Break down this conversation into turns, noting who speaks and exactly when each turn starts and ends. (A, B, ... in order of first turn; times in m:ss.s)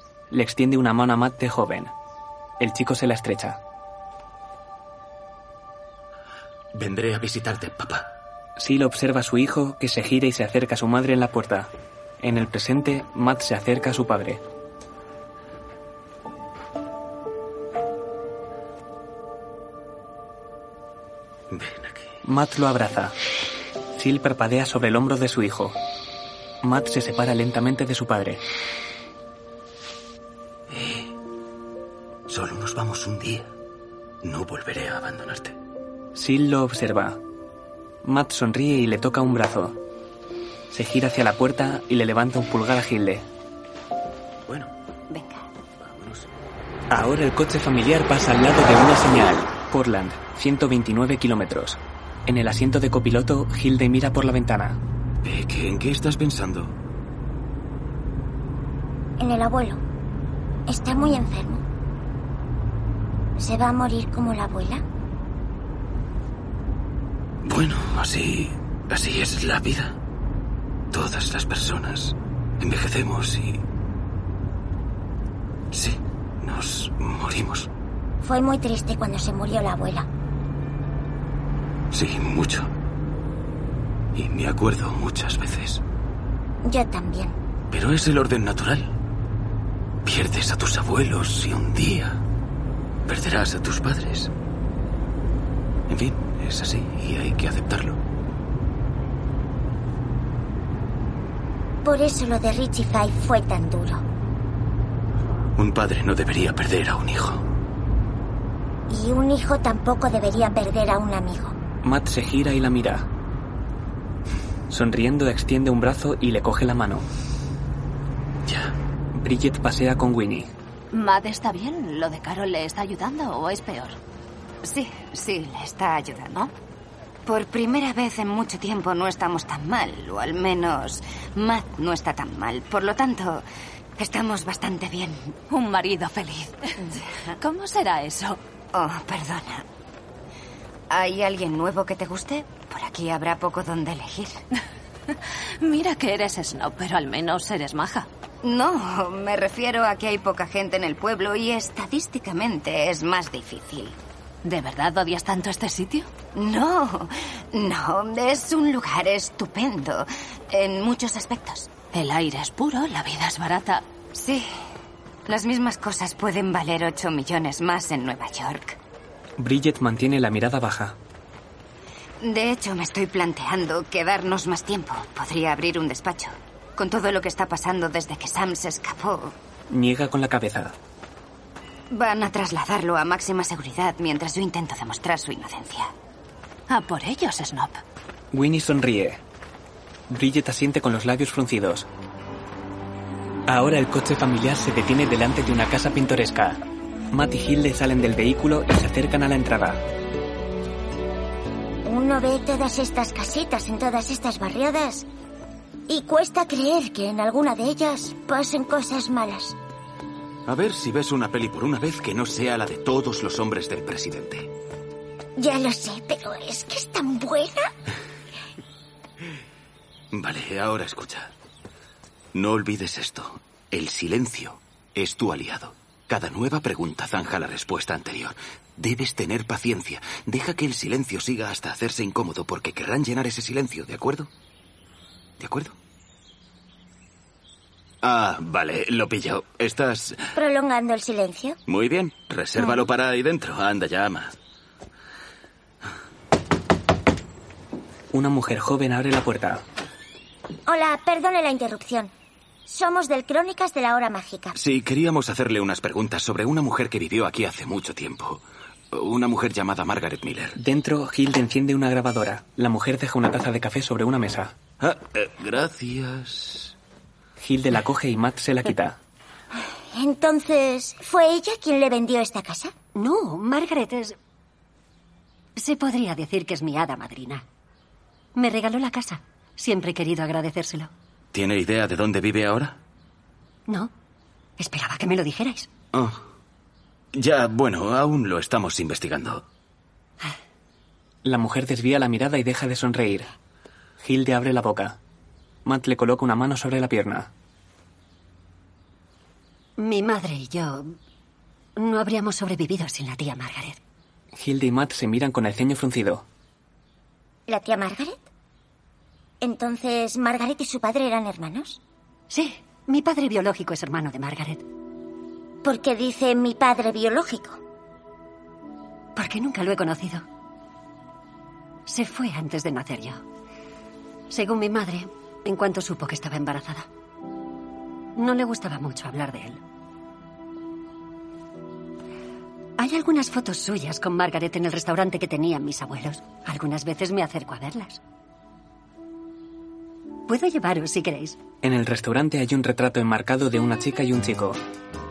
0:00.3-0:01.9 A
0:02.6-0:03.6 A
0:06.7-0:08.1 B
0:08.6-0:14.4 A
0:21.5-0:22.1 B
0:22.2-0:23.2 A
0:24.0-0:25.8 A
0:26.6-0:28.4 A
0:30.7-0:31.1 B
0:32.3-0:33.5 B
0:34.2-0:35.6 B
0:36.2-0:37.2 A
0:38.0-0:39.8 A
0:40.7-0:43.3 A
0:45.1-0:45.5 C
0:45.8-0:46.3 B
0:46.9-0:54.8 A
0:55.2-0:56.8 B
0:59.2-0:59.8 D
1:00.7-1:01.6 D
1:03.4-1:04.8 D
1:07.4-1:10.0 B
1:10.9-1:13.6 B
1:15.7-1:17.7 B
1:18.2-1:20.1 D
1:21.9-1:22.7 B
1:24.2-1:25.8 B
1:26.6-1:27.4 D
1:27.7-1:28.9 B
1:30.0-1:32.2 B
1:33.1-1:34.3 B
1:35.9-1:38.0 B
1:41.8-1:44.0 D
1:45.6-1:47.4 B
1:48.9-1:51.6 D
1:51.8-1:53.1 A
1:54.7-1:57.1 A
1:58.5-1:58.7 B
1:59.1-2:00.5 A
2:00.9-2:04.0 E
2:04.6-2:06.5 C
2:07.3-2:13.4 C
2:14.0-2:15.4 C
2:15.5-2:16.6 E
2:16.9-2:17.4 C
2:17.4-2:18.4 E
2:18.7-2:19.6 C
2:20.9-2:24.4 C
2:25.6-2:28.1 E
2:28.4-2:34.0 C
2:34.4-2:36.1 E
2:36.3-2:41.7 C
2:41.9-2:43.8 E
2:44.1-2:44.5 C
2:45.3-2:48.8 C
2:49.4-2:51.0 A
2:52.2-2:59.4 C
2:59.7-3:00.8 A
3:01.9-3:05.9 C
3:06.7-3:07.8 E
3:08.3-3:09.2 A
3:10.1-3:11.9 A
3:13.5-3:16.6 A
3:17.1-3:19.8 A
3:21.8-3:25.1 D
3:25.9-3:29.6 D
3:30.5-3:34.5 B
3:35.4-3:37.7 D
3:40.1-3:41.3 B
3:42.3-3:54.3 B
3:55.4-3:55.8 B
3:58.0-4:00.3 B
4:00.4-4:01.6 D
4:01.7-4:04.4 B
4:08.1-4:09.6 A
4:10.7-4:12.1 D
4:12.7-4:14.6 D
4:14.6-4:20.6 B
4:20.6-4:24.6 A
4:24.8-4:26.7 B
4:27.4-4:29.0 A
4:29.9-4:32.7 D
4:33.0-4:34.2 F
4:35.6-4:37.4 F
4:38.4-4:40.9 F
4:41.3-4:42.8 B
4:44.6-4:45.7 F
4:45.9-4:46.2 B
4:47.1-4:49.4 B
4:51.2-4:53.3 A
4:54.0-4:55.0 A
4:55.6-4:57.3 A
4:59.8-5:01.0 F
5:01.8-5:03.8 F
5:04.4-5:06.2 A
5:07.5-5:08.2 D
5:09.4-5:11.8 D
5:12.3-5:14.6 F
5:15.6-5:17.6 D
5:19.2-5:20.2 F
5:21.9-5:23.2 F
5:24.3-5:26.9 F
5:28.2-5:29.6 F
5:32.8-5:38.0 F
5:40.3-5:41.4 F
5:41.6-5:44.6 A